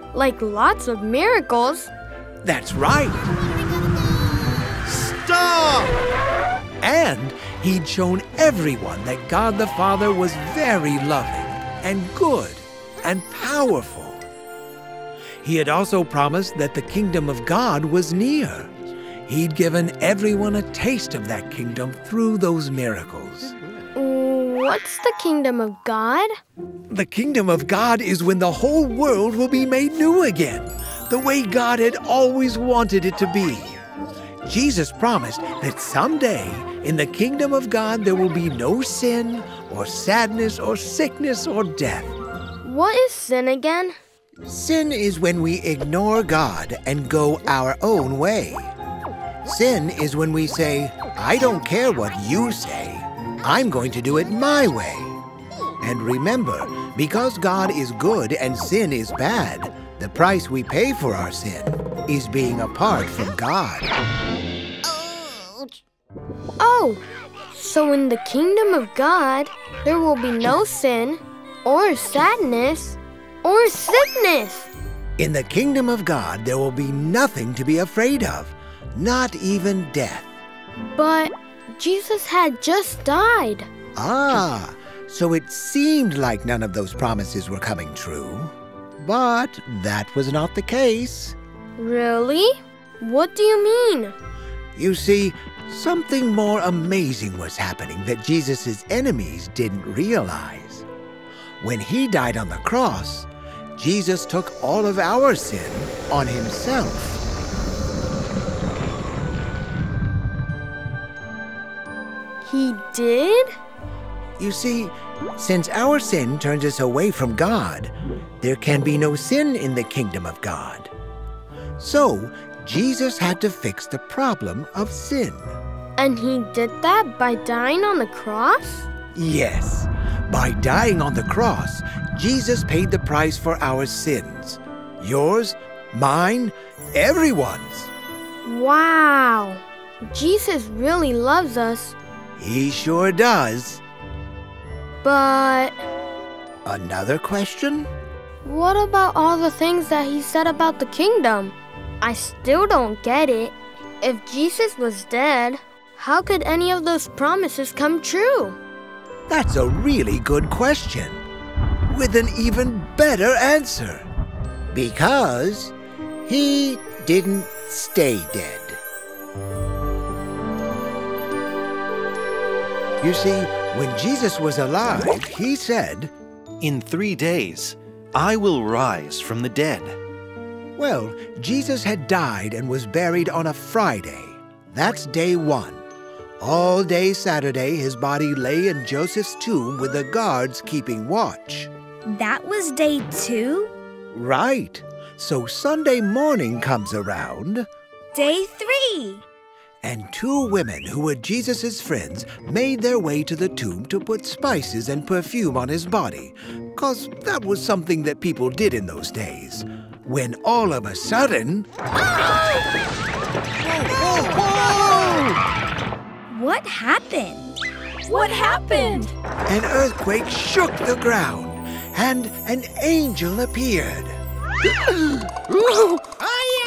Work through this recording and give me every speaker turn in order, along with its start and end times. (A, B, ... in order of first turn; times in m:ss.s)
0:00.1-0:01.9 A
0:02.4-0:03.3 B
0:04.8-0:06.0 B
0:06.8-0:14.2 B
0:15.4-0:18.7 B
0:19.3-0:23.6 B
0:24.0-0:26.3 A
0:26.9-0:33.8 B
0:34.5-0:42.2 B
0:42.6-0:44.0 A
0:44.5-0:48.7 B
0:49.4-0:55.2 B
0:55.8-1:03.9 B
1:06.6-1:07.0 A
1:07.5-1:14.7 A
1:15.2-1:20.3 B
1:21.0-1:23.7 A
1:24.0-1:31.4 B
1:31.8-1:34.2 A
1:34.7-1:40.9 B
1:41.6-1:47.2 B
1:52.4-1:53.5 A
1:54.4-2:00.9 B
2:01.8-2:05.5 B
2:06.0-2:08.9 A
2:09.2-2:17.9 B
2:18.4-2:22.0 A
2:22.4-2:23.8 B
2:25.0-2:25.8 A
2:26.6-2:27.9 B
2:28.4-2:38.6 A
2:39.3-2:41.2 B
2:41.9-2:44.1 B
2:44.7-2:45.7 B
2:46.2-2:48.8 B
2:53.0-2:56.1 B
2:56.6-3:00.0 C
3:00.8-3:05.8 B
3:06.4-3:11.7 B
3:12.1-3:13.7 D
3:14.1-3:17.7 B
3:18.1-3:19.2 D
3:19.8-3:31.7 B
3:33.7-3:35.4 B
3:36.3-3:39.1 D
3:39.5-3:44.2 B